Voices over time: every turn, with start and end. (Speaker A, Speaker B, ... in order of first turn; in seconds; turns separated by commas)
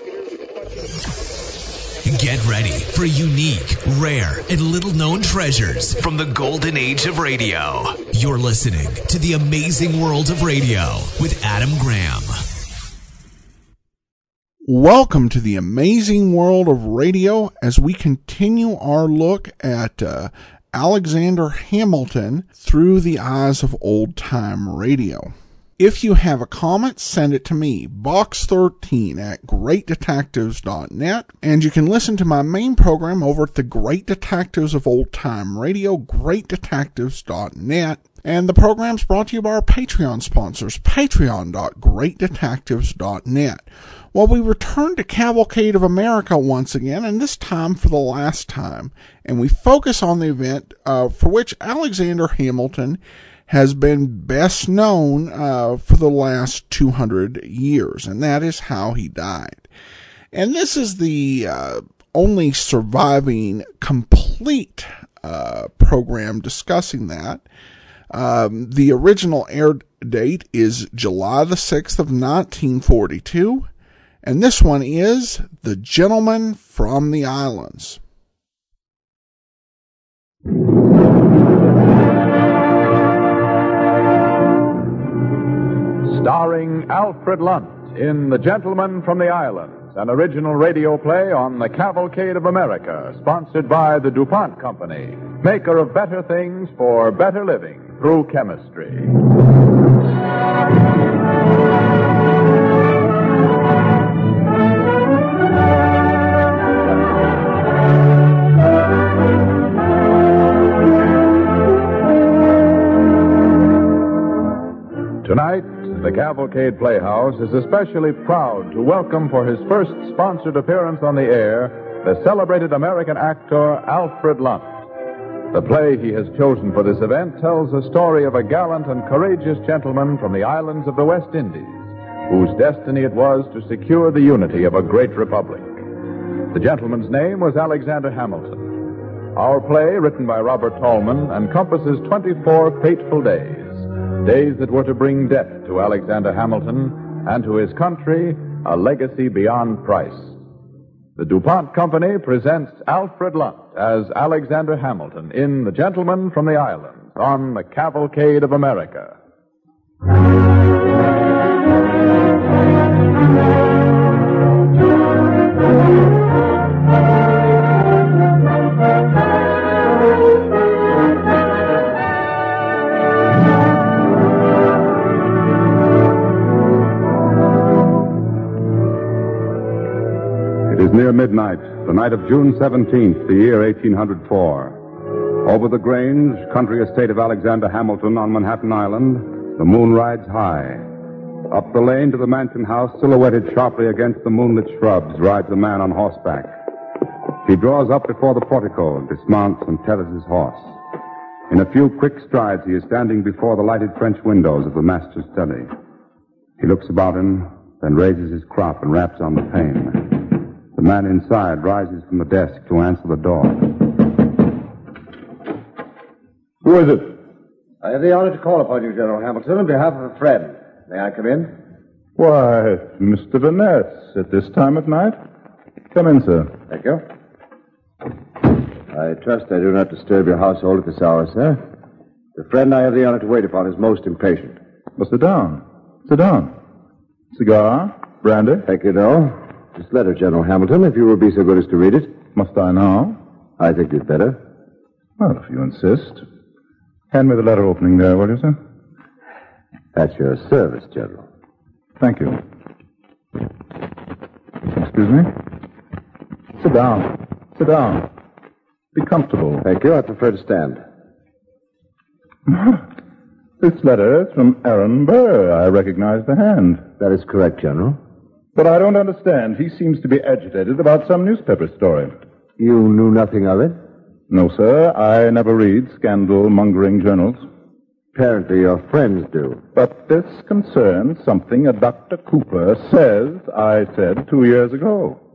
Speaker A: 2.0-12.4, Speaker B: 14.7-59.6, Speaker B: 60.3-67.4, Speaker B: 68.1-73.7, Speaker B: 74.2-78.0, Speaker C: 86.0-99.2, Speaker C: 115.2-124.8, Speaker C: 125.5-135.8, Speaker C: 136.5-150.4, Speaker C: 151.2-159.2, Speaker D: 180.7-184.8, Speaker D: 185.4-190.8, Speaker D: 191.5-196.5, Speaker D: 197.4-200.8, Speaker D: 201.5-205.7, Speaker D: 206.6-213.8, Speaker E: 216.7-217.0, Speaker E: 217.8-221.5, Speaker F: 222.2-225.2, Speaker F: 225.9-226.5, Speaker E: 226.7-227.1, Speaker E: 228.9-231.6, Speaker E: 232.4-234.6, Speaker F: 235.0-236.5, Speaker F: 237.3-238.7, Speaker E: 238.7-242.1, Speaker F: 242.3-243.2, Speaker E: 243.6-244.4, Speaker F: 245.2-246.2, Speaker F: 247.1-248.6, Speaker E: 249.9-251.2, Speaker F: 252.0-252.4, Speaker F: 254.7-255.3, Speaker F: 256.6-258.1, Speaker F: 258.9-259.6, Speaker E: 259.6-260.8, Speaker F: 262.5-262.9, Speaker F: 263.6-266.9, Speaker E: 267.0-268.0, Speaker F: 268.6-272.2, Speaker E: 272.6-273.8, Speaker F: 274.3-277.4, Speaker E: 278.1-279.6, Speaker F: 279.8-285.2